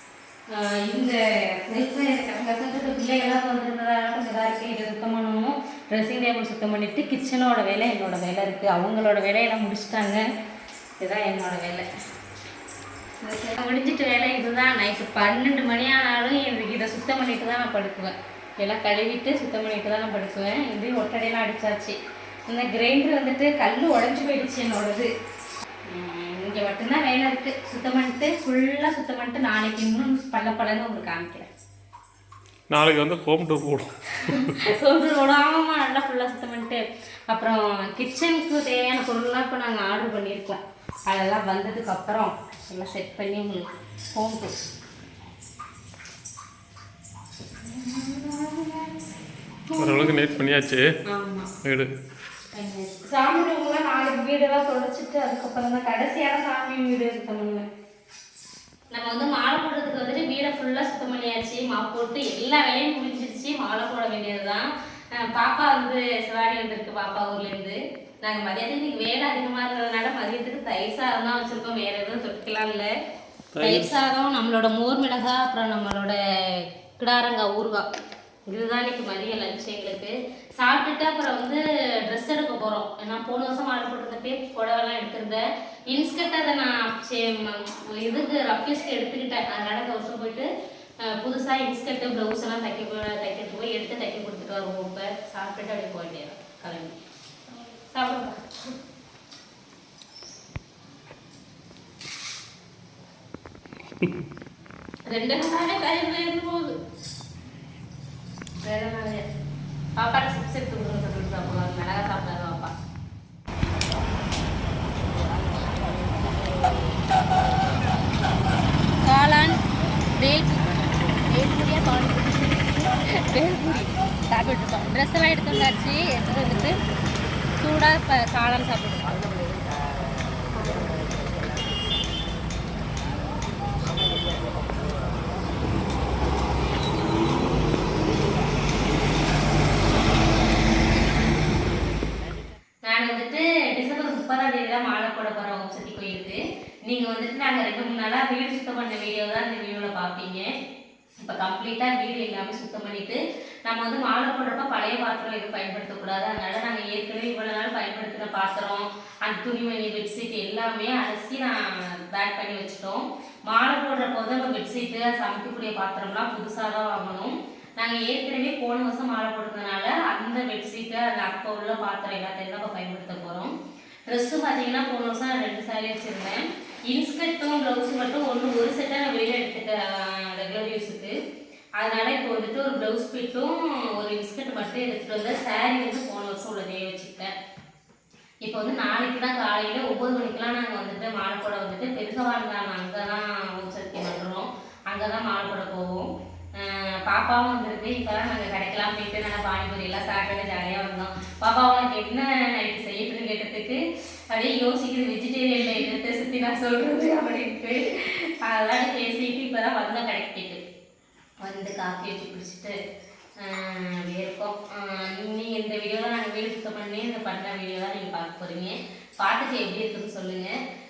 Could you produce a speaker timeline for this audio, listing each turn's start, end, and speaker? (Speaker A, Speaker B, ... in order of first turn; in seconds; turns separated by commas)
Speaker A: 0.5-10.2, Speaker A: 11.0-11.9, Speaker A: 13.2-25.1, Speaker A: 25.9-31.5, Speaker B: 32.7-34.5, Speaker A: 34.1-44.6, Speaker A: 47.6-49.0, Speaker A: 49.7-50.3, Speaker B: 49.8-50.8, Speaker A: 51.1-51.5, Speaker B: 51.6-51.9, Speaker A: 52.5-57.6, Speaker A: 58.9-72.9, Speaker B: 73.5-73.9, Speaker A: 73.6-77.9, Speaker A: 78.5-90.5, Speaker A: 91.0-97.0, Speaker A: 97.6-98.5, Speaker A: 105.0-106.8, Speaker A: 108.6-109.2, Speaker A: 110.0-112.7, Speaker A: 119.0-119.6, Speaker A: 120.2-126.8, Speaker A: 127.6-129.2, Speaker A: 142.8-150.5, Speaker A: 151.2-173.5, Speaker A: 174.1-181.1, Speaker A: 181.8-187.3, Speaker A: 188.4-210.6, Speaker A: 211.4-212.8, Speaker A: 213.4-220.5